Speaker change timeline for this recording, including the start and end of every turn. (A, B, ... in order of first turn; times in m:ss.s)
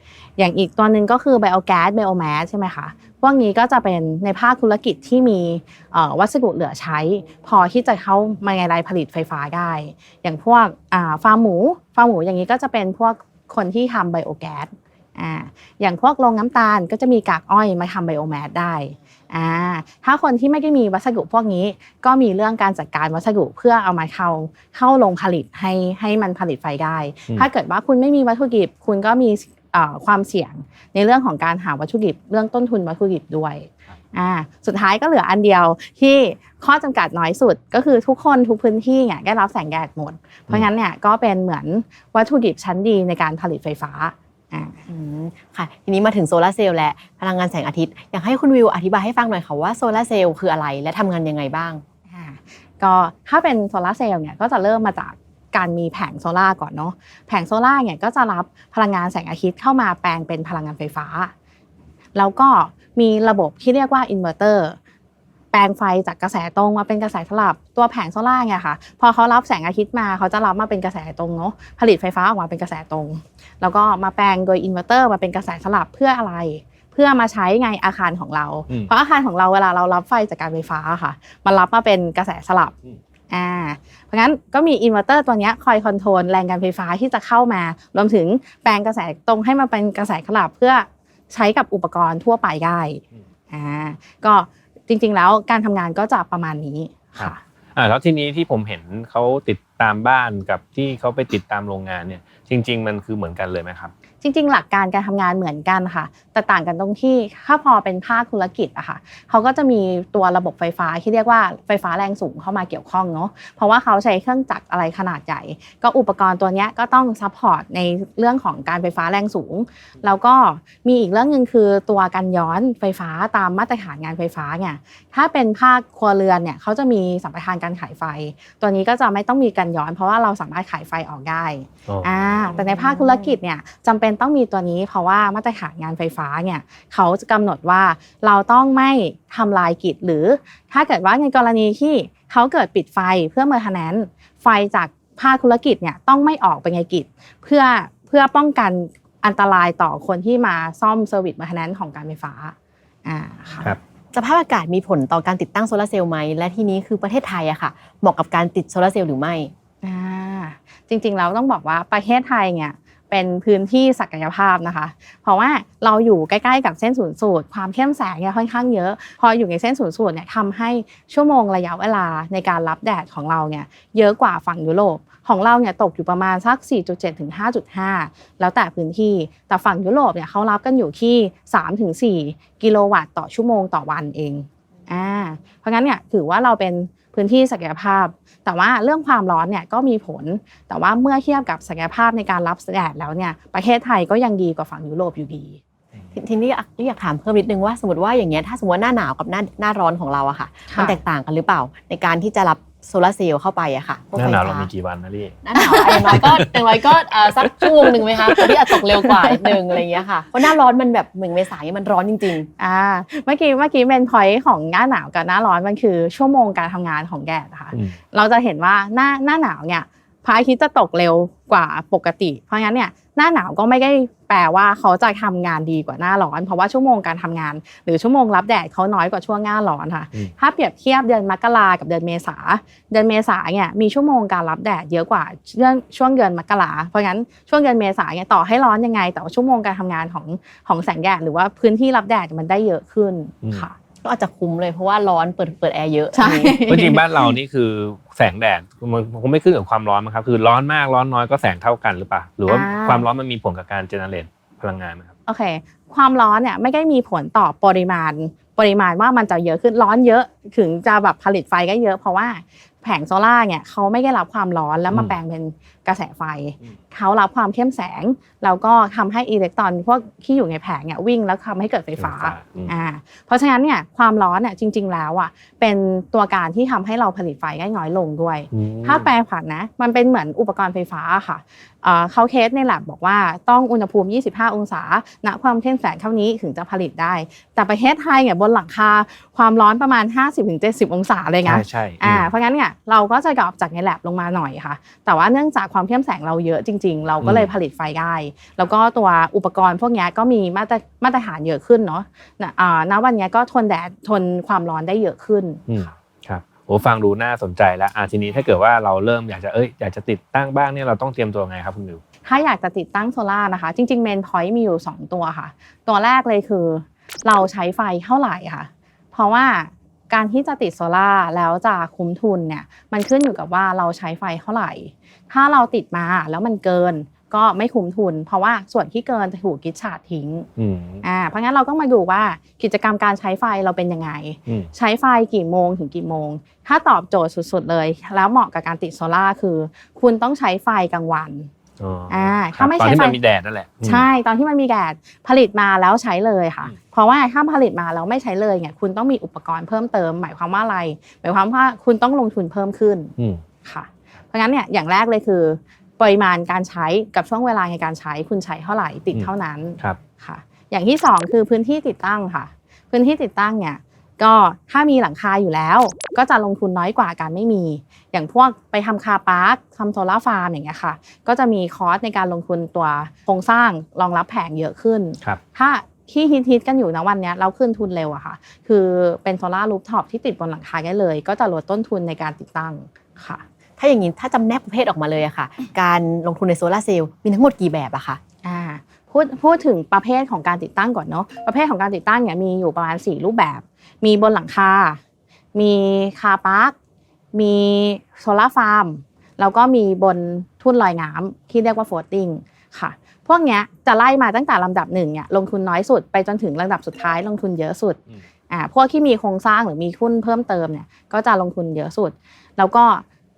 0:00.4-0:44.8 A
0:44.9-0:51.8 B
0:52.1-1:01.3 A
1:02.2-1:04.8 A
1:05.5-1:22.8 A
1:23.3-1:37.4 A
1:37.2-1:43.9 C
1:44.2-2:32.5 A
2:11.9-2:12.6 C
2:33.0-2:33.8 A
2:34.1-2:39.5 B
2:39.8-3:15.6 A
3:16.1-3:24.7 B
3:20.7-3:21.0 A
3:24.2-3:28.5 C
3:25.4-3:32.5 B
3:28.8-3:29.5 A
3:32.6-4:03.8 A
4:04.0-4:06.6 B
4:06.1-4:07.3 A
4:06.7-4:15.1 C
4:12.5-4:13.1 A
4:15.3-5:05.6 A
4:24.9-4:25.2 C
4:32.0-4:32.7 C
4:38.5-4:39.1 C
4:51.4-4:52.3 C
4:57.2-4:57.5 C
5:05.7-5:12.0 C
5:12.2-5:30.5 A
5:30.6-5:31.0 C
5:31.0-5:41.5 A
5:41.8-5:44.1 C
5:42.1-5:43.2 A
5:43.8-5:53.1 A
5:53.2-5:53.4 C
5:53.6-6:23.4 A
5:59.1-6:00.0 C
6:23.8-6:28.2 B
6:28.4-6:35.0 A
6:35.6-6:36.8 A
6:37.3-6:53.0 A